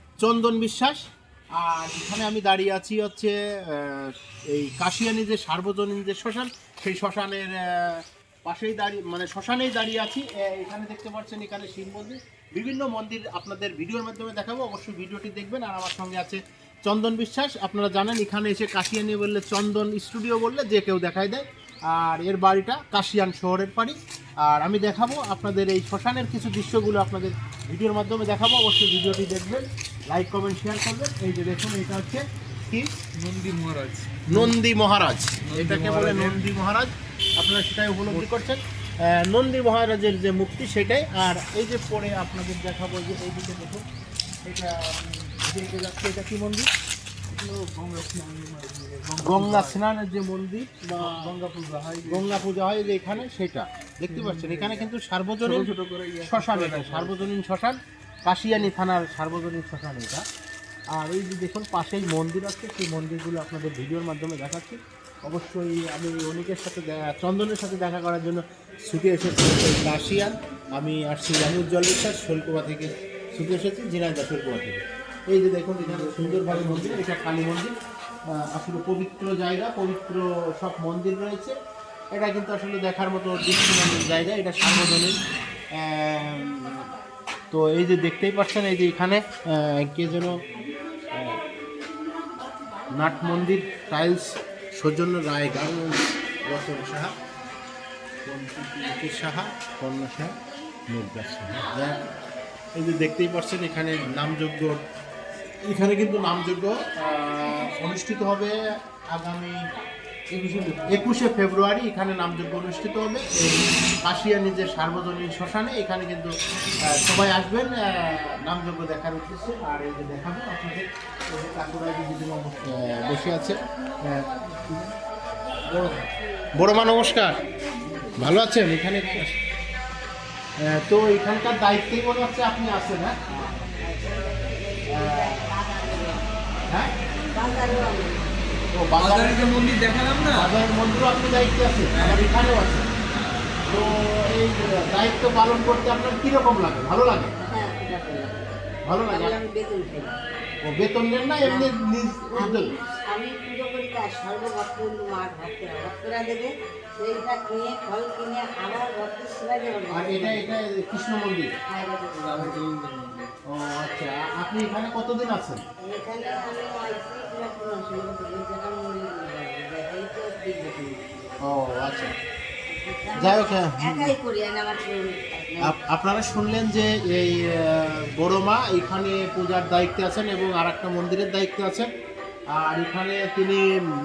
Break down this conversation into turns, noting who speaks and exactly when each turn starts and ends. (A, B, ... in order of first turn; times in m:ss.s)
0:00.2-0:32.9 A
0:33.2-0:34.5 B
0:34.3-0:43.8 A
0:35.4-0:36.4 B
0:44.4-0:46.7 A
0:47.3-0:49.8 B
0:49.2-0:51.3 A
0:50.9-0:52.4 B
0:52.0-0:55.7 A
0:54.1-0:54.9 B
0:55.4-0:57.3 B
0:56.2-1:00.2 A
1:00.9-1:17.7 A
1:15.8-1:17.1 B
1:18.3-1:21.6 A
1:22.1-1:25.2 A
1:25.8-1:26.9 A
1:27.5-1:30.4 A
1:31.1-1:31.4 A
1:32.9-1:37.1 A
1:38.2-1:40.3 A
1:40.9-1:42.1 A
1:42.7-1:44.8 A
1:45.6-1:48.5 A
1:49.1-1:49.6 A
1:50.3-1:51.0 B
1:50.8-1:56.3 A
1:56.9-2:04.9 A
2:05.6-2:07.4 A
2:08.1-2:09.4 A
2:10.6-2:13.6 A
2:13.2-2:16.3 C
2:14.9-2:15.5 A
2:17.3-2:18.4 C
2:18.7-2:19.5 A
2:19.0-2:20.5 B
2:20.3-2:22.9 A
2:21.9-2:22.4 B
2:23.7-2:27.3 A
2:27.4-2:30.2 C
2:28.8-2:29.3 A
2:30.6-2:32.8 A
2:31.4-2:31.7 C
2:32.3-2:40.6 C
2:39.9-2:41.5 A
2:41.7-2:42.6 C
2:42.1-2:43.3 B
2:43.5-2:45.6 A
2:45.8-2:51.3 C
2:51.4-2:52.1 A
2:52.7-2:55.7 C
2:53.2-2:54.1 A
2:55.6-3:01.9 A
3:02.5-3:03.6 A